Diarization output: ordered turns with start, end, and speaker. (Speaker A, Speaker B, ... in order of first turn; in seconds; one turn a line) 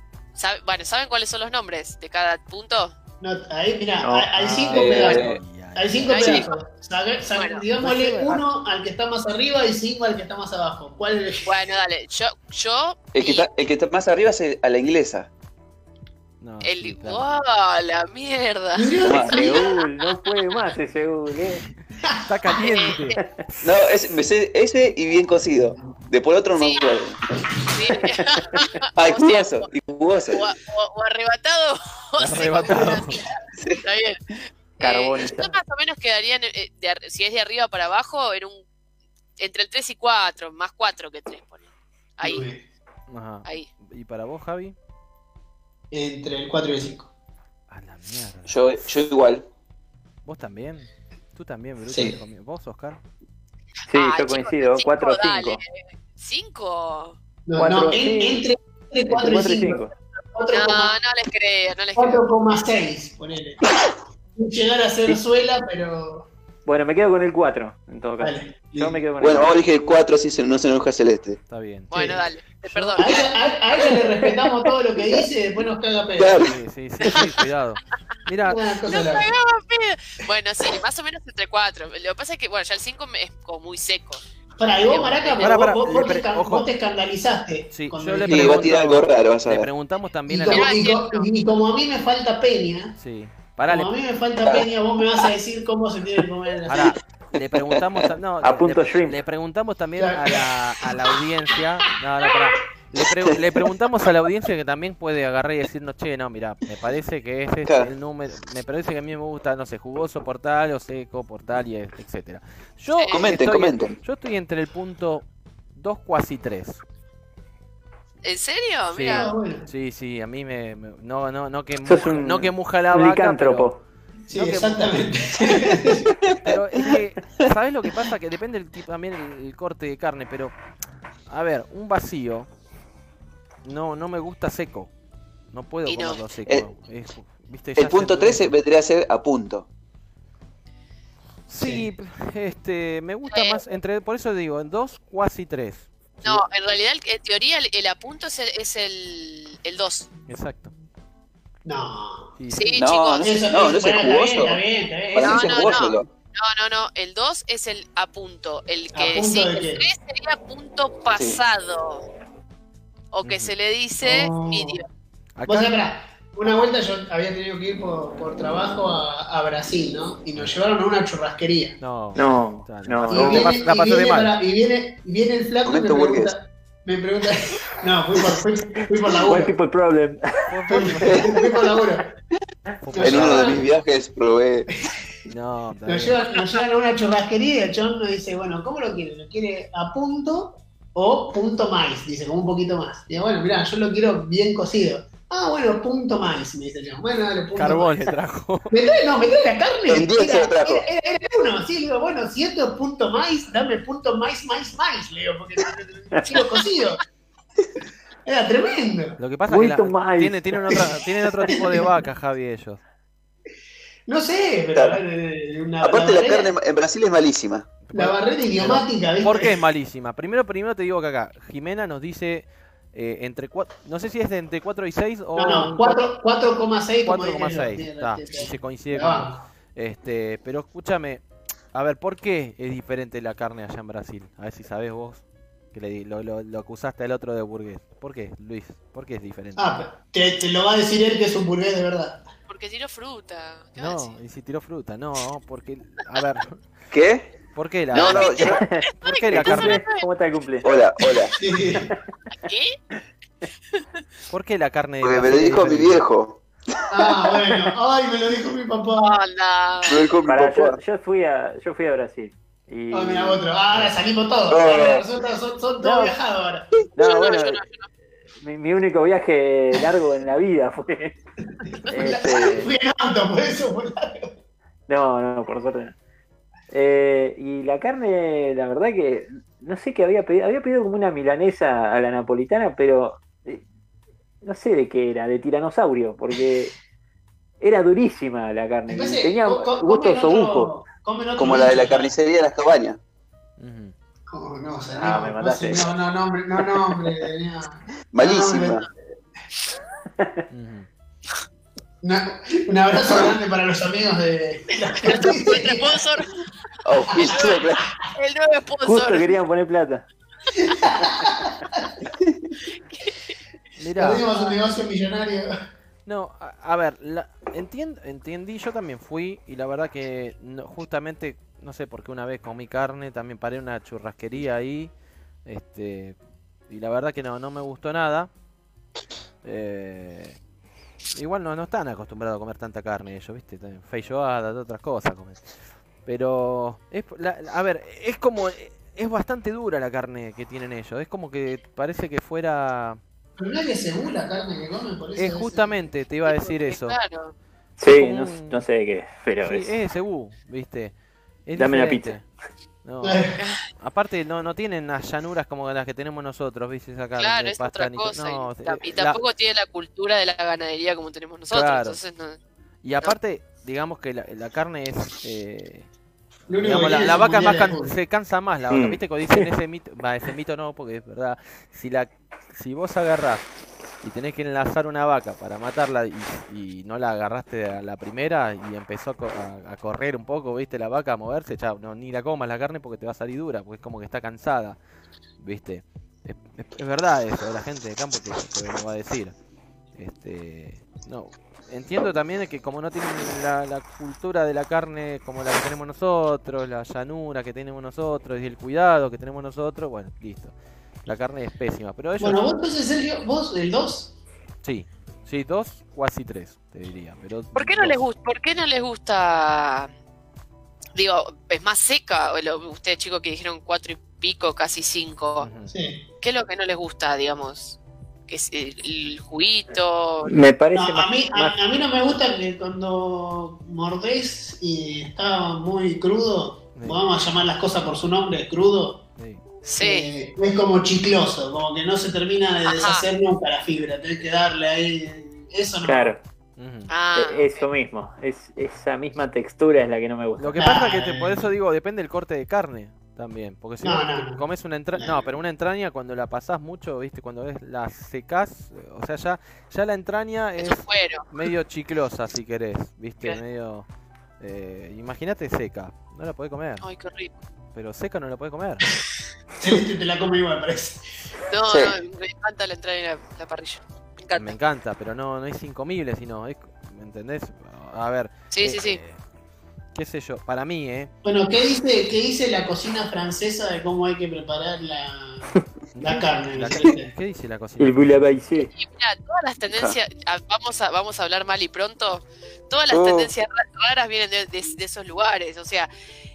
Speaker A: 0.3-2.9
Speaker B: 3.2-11.5
Speaker C: 4.0-4.3
Speaker D: 4.3-6.4
Speaker E: 4.7-5.4
Speaker A: 6.1-6.5
Speaker E: 6.2-6.5
Speaker A: 7.3-7.6
Speaker D: 7.8-8.4
Speaker A: 11.4-13.5
Speaker E: 13.1-15.3
Speaker D: 16.4-17.4
Speaker A: 16.6-20.3
Speaker B: 18.7-19.7
Speaker E: 19.0-19.4
Speaker C: 19.2-21.6
Speaker D: 22.2-23.8
Speaker A: 22.5-23.2
Speaker E: 23.6-27.2
Speaker A: 26.6-26.9
Speaker A: 27.7-29.7
Speaker C: 28.0-28.6
Speaker E: 28.9-30.4
Speaker A: 30.3-34.2
Speaker D: 32.2-33.2
Speaker E: 33.6-33.8
Speaker A: 34.8-38.6
Speaker C: 34.8-35.5
Speaker A: 39.4-41.6
Speaker A: 42.2-42.5
Speaker B: 42.2-42.6
Speaker D: 43.1-44.7
Speaker B: 45.9-47.1
Speaker D: 47.7-49.0
Speaker E: 48.5-49.5
Speaker D: 50.2-53.0
Speaker E: 51.9-52.2
Speaker C: 53.9-55.6
Speaker A: 53.9-57.2
Speaker B: 57.5-60.9
Speaker C: 57.5-58.4
Speaker C: 59.0-59.9
Speaker A: 60.5-62.2
Speaker B: 62.0-63.7
Speaker B: 64.3-66.3
Speaker C: 66.7-69.6
Speaker B: 68.2-69.0
Speaker E: 69.2-71.4
Speaker D: 71.5-71.9
Speaker A: 71.9-73.3
Speaker B: 71.9-72.2
Speaker D: 72.7-73.0
Speaker B: 73.0-76.4
Speaker E: 76.2-76.6
Speaker D: 76.4-78.7
Speaker A: 77.1-77.4
Speaker B: 78.5-79.3
Speaker A: 78.8-84.2
Speaker B: 84.6-88.8
Speaker A: 84.8-85.5
Speaker D: 85.4-86.7
Speaker D: 87.7-90.8
Speaker E: 88.3-89.7
Speaker B: 90.3-92.9
Speaker A: 90.5-91.3
Speaker D: 93.0-93.9
Speaker B: 93.7-97.0
Speaker D: 96.7-116.8
Speaker E: 97.3-98.1
Speaker C: 98.4-99.2
Speaker B: 100.0-101.0
Speaker E: 107.7-107.9
Speaker A: 112.9-113.2
Speaker E: 113.1-114.0
Speaker A: 118.2-119.3
Speaker D: 118.9-123.7
Speaker B: 119.1-119.7
Speaker C: 121.8-123.8
Speaker B: 124.3-126.1
Speaker D: 124.3-125.0
Speaker E: 126.1-126.9
Speaker D: 126.4-130.6
Speaker D: 131.3-132.5
Speaker D: 133.6-134.9
Speaker D: 135.5-138.5
Speaker A: 135.8-136.2
Speaker E: 137.8-139.7
Speaker D: 141.5-146.4
Speaker B: 141.6-141.8
Speaker A: 143.3-143.6
Speaker A: 146.2-150.1
Speaker D: 150.3-150.7
Speaker B: 151.6-152.3
Speaker D: 152.4-152.9
Speaker A: 152.5-153.3
Speaker E: 152.8-156.1
Speaker B: 153.2-155.9
Speaker A: 155.2-162.1
Speaker B: 158.9-159.9
Speaker E: 161.1-161.4
Speaker A: 163.1-164.8
Speaker D: 163.2-163.5
Speaker B: 164.0-164.8
Speaker D: 165.4-165.7
Speaker B: 165.5-171.8
Speaker D: 171.8-174.3
Speaker C: 172.2-173.6
Speaker B: 173.1-179.5
Speaker E: 175.6-176.3
Speaker C: 179.2-180.2
Speaker D: 180.5-181.4
Speaker B: 180.7-182.1
Speaker E: 181.0-181.3
Speaker D: 182.8-183.6
Speaker B: 182.9-183.6
Speaker E: 183.0-184.7
Speaker D: 185.3-186.3
Speaker B: 185.9-198.1
Speaker D: 197.6-198.8
Speaker B: 198.7-207.0
Speaker E: 199.9-200.9
Speaker B: 208.2-209.2
Speaker D: 209.2-212.8
Speaker C: 209.5-210.8
Speaker B: 211.5-211.9
Speaker B: 214.1-216.5
Speaker E: 214.7-215.0
Speaker E: 215.8-217.7
Speaker D: 217.8-226.0
Speaker B: 217.9-219.6
Speaker B: 225.3-229.4
Speaker D: 227.0-231.2
Speaker D: 231.7-239.8
Speaker B: 239.6-242.2
Speaker A: 242.5-244.2
Speaker D: 243.8-246.6
Speaker E: 246.9-247.3
Speaker D: 247.5-249.9
Speaker E: 247.9-248.6
Speaker A: 248.0-250.0
Speaker C: 248.5-250.7
Speaker E: 250.6-251.3
Speaker B: 251.4-251.9
Speaker C: 251.7-252.0
Speaker A: 252.4-252.7
Speaker D: 254.3-256.0
Speaker E: 255.0-256.4
Speaker B: 256.9-259.1
Speaker A: 259.0-260.0
Speaker E: 259.9-260.8
Speaker C: 260.3-263.4
Speaker B: 262.9-266.7
Speaker E: 264.5-265.1
Speaker C: 265.8-266.1
Speaker C: 266.9-267.6
Speaker A: 267.0-267.9
Speaker C: 268.4-271.1
Speaker B: 271.6-274.3
Speaker C: 271.9-272.7
Speaker C: 274.9-275.9
Speaker C: 276.7-283.6
Speaker C: 284.4-286.7
Speaker C: 287.6-290.7
Speaker B: 288.9-292.1
Speaker E: 291.4-293.0
Speaker D: 293.6-293.9
Speaker B: 294.3-298.9
Speaker C: 294.9-295.9
Speaker E: 298.1-298.9
Speaker D: 300.5-300.9
Speaker B: 302.0-306.0
Speaker A: 305.0-306.3
Speaker E: 306.8-307.9
Speaker B: 307.1-307.4
Speaker A: 307.2-307.6
Speaker A: 308.1-309.3
Speaker C: 308.8-310.0
Speaker B: 310.6-311.8
Speaker D: 313.8-314.3
Speaker B: 313.9-315.5
Speaker D: 316.1-324.9
Speaker D: 325.4-326.2
Speaker D: 326.7-328.3
Speaker D: 329.4-330.4
Speaker D: 331.1-335.4
Speaker D: 336.0-343.0
Speaker B: 343.4-345.7
Speaker D: 345.2-347.0
Speaker A: 346.2-347.3
Speaker C: 347.8-349.7
Speaker D: 347.8-348.6
Speaker D: 349.4-350.9
Speaker D: 351.4-352.2
Speaker C: 351.6-352.1
Speaker D: 352.8-353.3
Speaker B: 353.0-353.4
Speaker A: 353.4-353.6
Speaker D: 353.8-359.2
Speaker A: 357.2-362.4
Speaker D: 361.5-362.0
Speaker D: 362.8-365.9
Speaker B: 366.5-367.9
Speaker D: 366.5-373.4
Speaker C: 368.7-369.5
Speaker D: 374.0-384.8
Speaker D: 385.4-389.3
Speaker D: 389.9-402.4
Speaker B: 402.2-404.1
Speaker D: 404.6-408.0
Speaker A: 407.5-409.9
Speaker A: 410.9-415.5
Speaker D: 415.4-415.7
Speaker B: 415.7-416.0
Speaker A: 416.2-420.3
Speaker C: 420.2-421.6
Speaker B: 420.7-429.0
Speaker D: 426.7-427.1
Speaker D: 429.2-429.4
Speaker A: 429.6-430.1
Speaker B: 429.8-436.1
Speaker A: 432.6-433.1
Speaker C: 435.8-436.2
Speaker D: 436.6-436.9
Speaker A: 436.9-437.7
Speaker C: 437.1-440.6
Speaker D: 440.4-453.9
Speaker B: 440.6-441.5
Speaker B: 443.8-444.4
Speaker B: 445.0-445.3
Speaker A: 450.6-451.3
Speaker D: 454.4-456.9
Speaker A: 456.8-457.3
Speaker D: 457.7-458.8
Speaker B: 459.6-461.0
Speaker A: 461.5-464.5
Speaker E: 461.6-462.0
Speaker D: 464.3-469.2
Speaker A: 468.5-469.0
Speaker D: 469.9-471.1
Speaker B: 471.2-477.1
Speaker D: 475.9-478.4
Speaker C: 477.8-478.7
Speaker A: 478.7-485.9
Speaker E: 482.9-483.3